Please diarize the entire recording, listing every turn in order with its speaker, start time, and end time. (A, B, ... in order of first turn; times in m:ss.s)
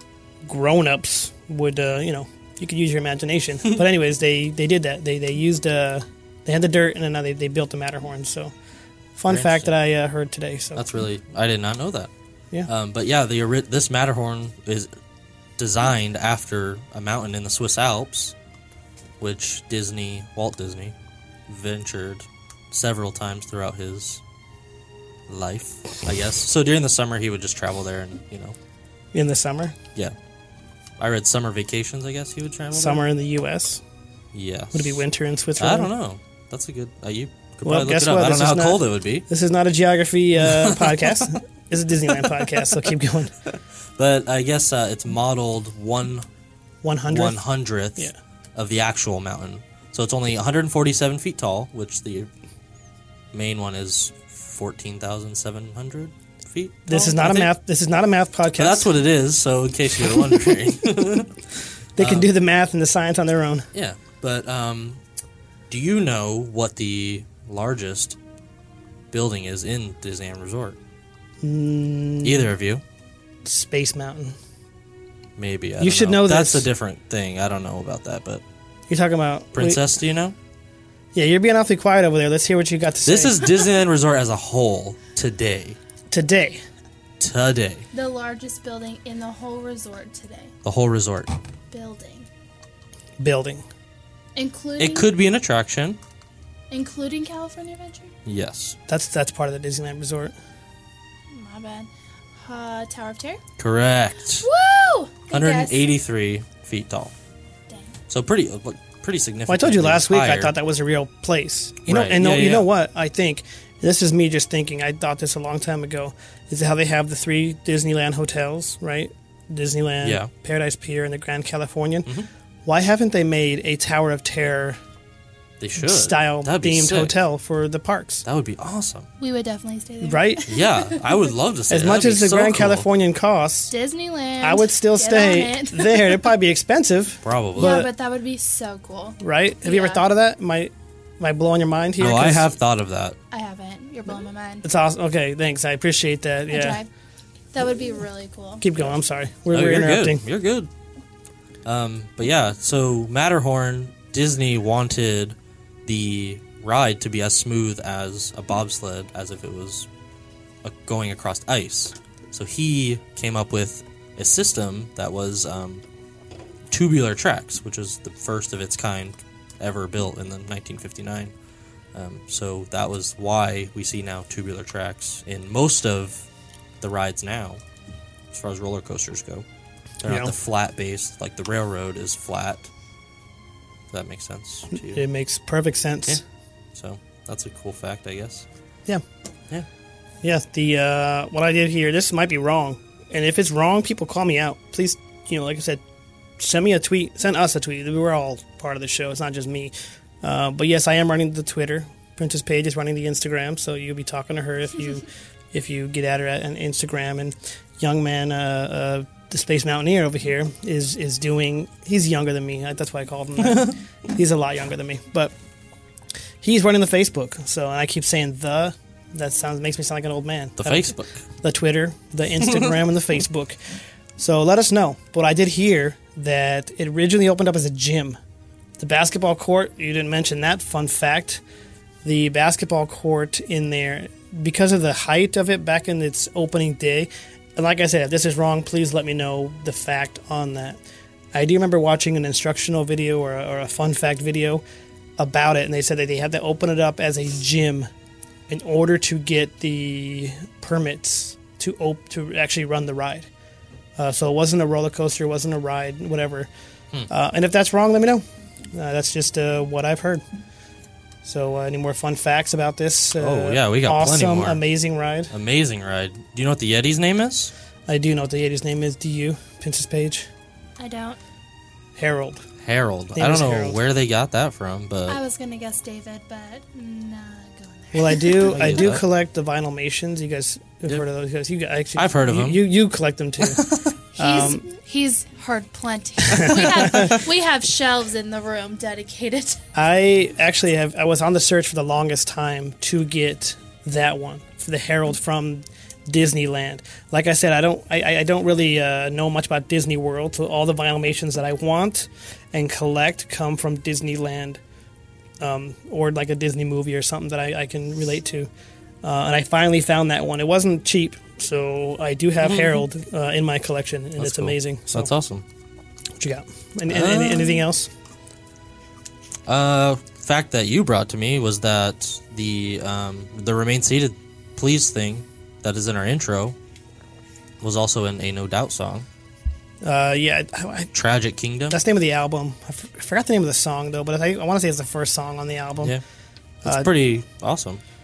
0:00.4-0:08.5 A
0:09.2-0:10.8 A
0:09.3-0:09.7 B
0:10.7-0:12.1 B
0:12.7-0:14.9 B
0:15.6-0:18.3 B
0:19.2-0:21.0 B
0:21.5-0:24.2 B
0:25.3-0:28.6 B
0:29.1-0:29.8 A
0:31.0-0:33.0 B
0:32.7-0:33.8 A
0:34.3-0:35.0 B
0:34.7-0:35.9 A
0:35.6-0:39.2 B
0:37.6-0:43.3 A
0:40.4-0:41.3 B
0:42.2-0:42.7 B
0:43.5-0:46.3 B
0:46.8-0:48.1 A
0:47.1-0:52.3 B
0:53.3-0:57.5 B
0:56.9-0:58.9 A
0:58.6-1:01.4 B
1:02.0-1:03.7 A
1:02.0-1:02.3 B
1:03.7-1:05.0 B
1:05.7-1:08.2 B
1:09.1-1:10.8 B
1:11.4-1:12.5 A
1:12.2-1:12.8 B
1:13.4-1:14.3 A
1:15.4-1:18.4 B
1:15.8-1:16.7 A
1:18.9-1:19.8 A
1:19.5-1:20.4 B
1:21.1-1:23.5 A
1:23.0-1:25.8 B
1:26.1-1:26.6 A
1:27.2-1:27.8 B
1:27.9-1:30.5 C
1:30.6-1:31.3 B
1:31.7-1:32.3 C
1:33.2-1:33.6 A
1:34.4-1:35.1 C
1:34.8-1:36.0 B
1:36.7-1:38.1 C
1:38.2-1:38.8 B
1:38.9-1:40.3 A
1:41.3-1:43.4 C
1:43.6-1:44.5 B
1:44.4-1:45.8 C
1:45.3-1:47.1 B
1:47.7-1:47.9 C
1:48.1-1:50.5 B
1:49.5-2:02.1 A
1:51.9-1:52.7 B
2:00.0-2:00.3 B
2:02.6-2:04.8 A
2:05.6-2:07.2 B
2:05.8-2:08.2 A
2:08.2-2:09.1 B
2:09.2-2:11.1 C
2:10.0-2:10.4 A
2:10.5-2:12.8 B
2:11.7-2:13.7 A
2:13.7-2:16.3 C
2:14.4-2:17.9 A
2:17.2-2:17.8 B
2:17.6-2:20.0 C
2:19.2-2:22.5 A
2:22.0-2:23.2 B
2:23.3-2:24.6 C
2:24.6-2:26.8 A
2:26.5-2:26.9 C
2:27.5-2:28.6 C
2:28.6-2:30.2 A
2:29.5-2:30.7 B
2:31.6-2:39.9 B
2:40.6-2:45.8 B
2:46.7-2:51.3 B
2:51.9-2:56.3 B
2:56.8-2:57.6 B
2:58.3-2:59.4 B
3:00.0-3:02.7 B
3:00.0-3:00.3 A
3:03.9-3:05.0 B
3:04.7-3:06.2 A
3:06.7-3:08.4 B
3:10.2-3:15.8 A
3:16.4-3:35.3 A
3:36.4-3:43.6 A
3:40.6-3:41.2 B
3:44.2-3:48.2 A
3:48.8-3:51.4 A
3:52.0-4:00.8 A
4:01.3-4:04.6 A
4:05.2-4:07.9 A
4:08.5-4:13.3 A
4:14.0-4:16.5 A
4:17.1-4:20.2 A
4:21.2-4:25.3 A
4:23.2-4:24.6 B
4:25.3-4:27.5 B
4:27.9-4:30.3 A
4:30.8-4:31.2 C
4:32.0-4:32.4 A
4:32.6-4:35.2 B
4:33.1-4:33.8 A
4:35.1-4:38.6 C
4:37.9-4:44.6 A
4:38.4-4:39.0 B
4:42.0-4:42.7 B
4:43.4-4:43.9 B
4:44.2-4:49.6 C
4:46.3-4:47.2 A
4:49.7-5:04.6 A
5:05.4-5:08.5 A
5:09.0-5:15.1 A
5:12.4-5:12.8 B
5:14.2-5:15.4 B
5:16.2-5:17.9 A
5:16.9-5:17.6 B
5:19.5-5:26.6 B
5:27.6-5:29.0 B
5:29.8-5:30.9 A
5:30.9-5:31.8 B
5:31.7-5:36.0 A
5:36.6-5:36.9 A
5:36.6-5:37.8 B